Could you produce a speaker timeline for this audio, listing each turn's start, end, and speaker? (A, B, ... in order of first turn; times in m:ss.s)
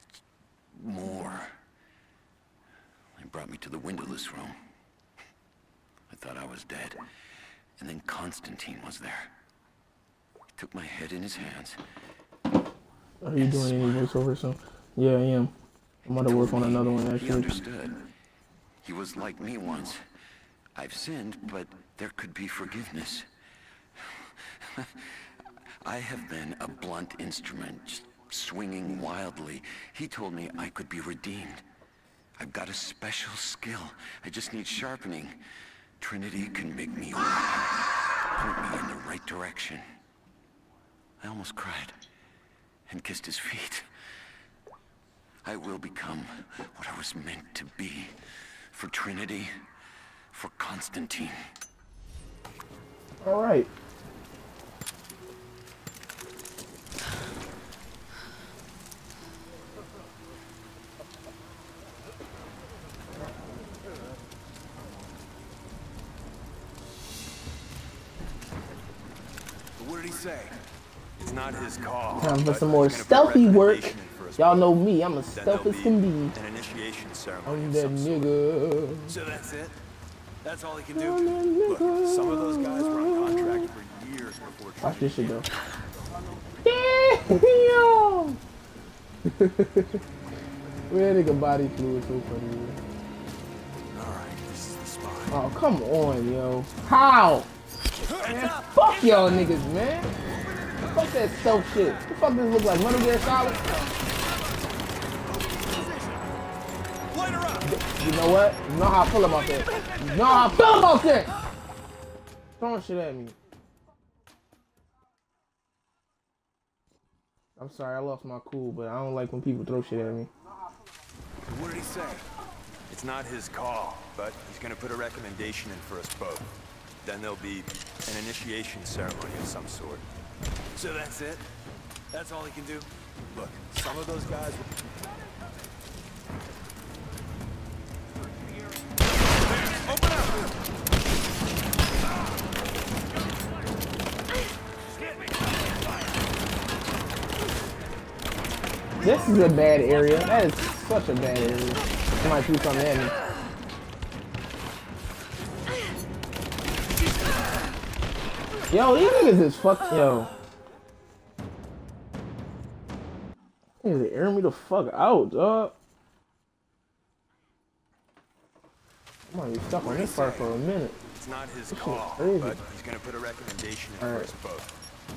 0:00.7-0:01.6 A
0:03.1-0:04.5 A
0:06.1-0:07.0 A
0:07.8-0:09.3 A
0:10.6-0:11.8 A
0:13.2-0:15.5 B
0:13.4-0:13.9 A
0:16.1-0:17.6 B
0:16.1-0:18.0 A
0:18.8-0:20.0 A
0:20.8-0:23.3 A
0:24.1-0:25.0 A
0:25.8-0:31.6 A
0:32.4-0:35.4 A
0:36.0-0:39.8 A
0:41.2-0:42.0 A
0:42.9-0:43.9 A
0:45.4-0:48.2 A
0:48.7-0:49.5 A
0:50.3-0:51.4 A
0:53.2-0:53.7 B
1:09.8-1:10.6 C
1:11.2-1:14.7 C
1:12.1-1:16.3 B
1:15.3-1:18.3 C
1:17.4-1:19.2 B
1:19.0-1:19.8 C
1:20.4-1:25.5 C
1:20.9-1:23.7 B
1:24.8-1:25.5 B
1:26.6-1:28.4 B
1:29.2-1:30.0 B
1:30.9-1:32.8 B
1:33.9-1:35.3 C
1:35.3-1:37.5 B
1:38.1-1:39.5 C
1:38.2-1:40.1 B
1:40.2-1:42.0 C
1:40.9-1:43.6 B
1:43.2-1:43.9 C
1:45.3-1:46.2 C
1:47.1-1:47.7 C
1:47.6-1:51.3 B
1:49.6-1:50.4 C
1:52.6-1:53.4 B
1:57.6-2:00.3 B
2:01.4-2:02.3 C
2:02.9-2:10.0 C
2:10.7-2:11.5 C
2:12.1-2:14.7 C
2:19.3-2:20.4 C
2:24.9-2:25.8 C
2:29.0-2:29.6 C
2:29.0-2:33.1 B
2:38.7-2:40.3 B
2:43.8-2:45.7 B
2:49.3-2:51.0 B
2:49.8-2:50.6 C
2:51.1-2:54.7 C
2:51.7-2:52.6 B
2:54.0-2:54.3 B